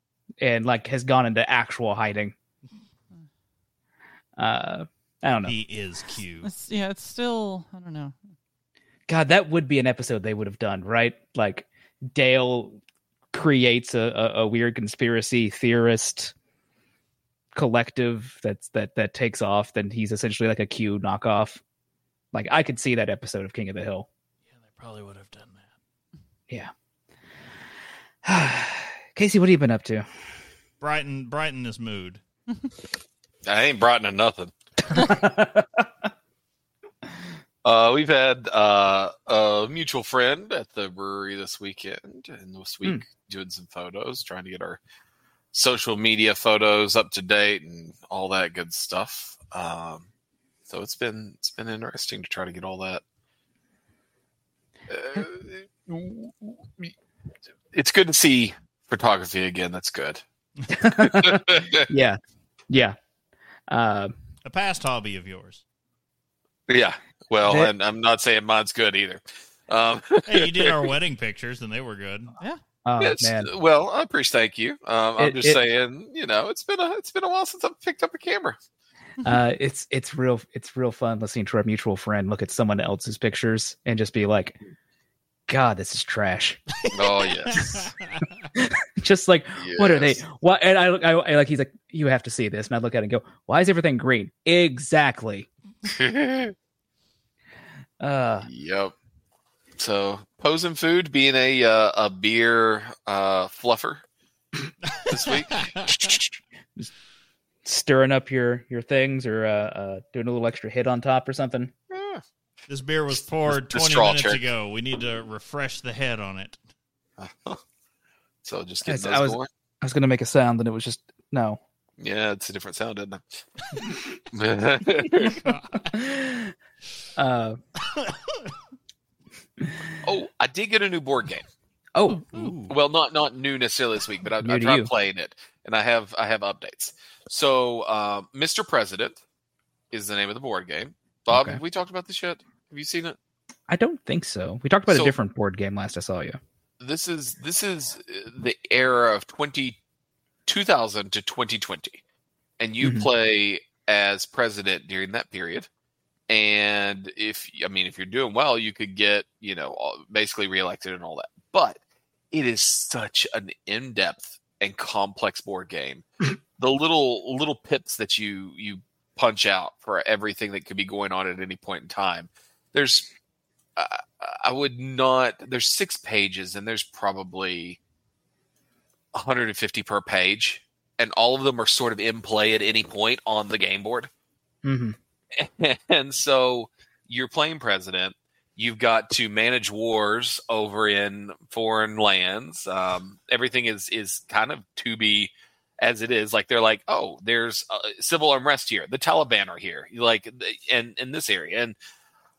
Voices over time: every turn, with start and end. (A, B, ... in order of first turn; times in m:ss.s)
0:00.4-0:02.4 A
0:04.4-0:05.6 A
0:05.4-0:06.5 B
0:06.4-0:08.2 C
0:09.1-0:12.8 A
0:13.3-0:16.3 A
0:17.6-0:21.6 A
0:22.3-0:24.1 A
0:24.6-0:25.6 B
0:28.2-0:30.1 A
0:30.8-0:32.2 B
0:33.5-0:34.5 D
0:34.9-0:35.9 A
0:37.6-0:44.8 D
0:45.5-0:50.1 D
0:50.7-0:53.0 D
0:54.9-0:56.9 D
0:57.7-1:00.2 D
1:00.7-1:02.2 A
1:01.0-1:01.9 D
1:02.7-1:03.0 A
1:03.7-1:04.2 A
1:04.4-1:05.6 B
1:06.7-1:10.9 D
1:07.4-1:07.7 A
1:10.3-1:12.4 B
1:12.8-1:13.5 A
1:13.0-1:18.6 D
1:15.2-1:15.6 A
1:19.2-1:24.6 A
1:25.5-1:26.6 A
1:26.8-1:28.3 B
1:26.9-1:27.8 D
1:28.6-1:35.5 A
1:29.6-1:30.2 D
1:35.8-1:36.5 D
1:38.0-1:38.5 A
1:38.4-1:38.9 D
1:39.8-1:44.0 D
1:45.1-1:45.8 D
1:45.6-1:45.9 B
1:46.0-1:46.3 A
1:47.6-1:51.7 A
1:51.9-1:52.2 D
1:52.7-1:56.6 B
1:53.5-1:54.4 D
1:57.2-1:57.6 D
1:58.4-1:59.5 D
1:58.9-2:01.6 A
2:02.0-2:05.4 D
2:05.1-2:06.5 A
2:05.4-2:05.8 B
2:07.2-2:07.6 A
2:07.9-2:08.5 B
2:10.0-2:11.5 D
2:12.0-2:12.3 A
2:12.1-2:12.5 C
2:12.3-2:12.7 B
2:12.7-2:19.2 D
2:14.4-2:14.9 A
2:19.9-2:23.2 D
2:21.3-2:21.6 A
2:23.7-2:26.4 A
2:24.9-2:25.2 D
2:26.8-2:29.8 D
2:30.5-2:32.0 D
2:32.6-2:35.7 D
2:32.8-2:33.1 A
2:36.3-2:41.8 D
2:42.3-2:46.1 D
2:46.6-2:53.1 D
2:53.8-2:57.8 D
2:59.1-3:04.1 D
3:04.6-3:05.0 A
3:05.4-3:21.8 D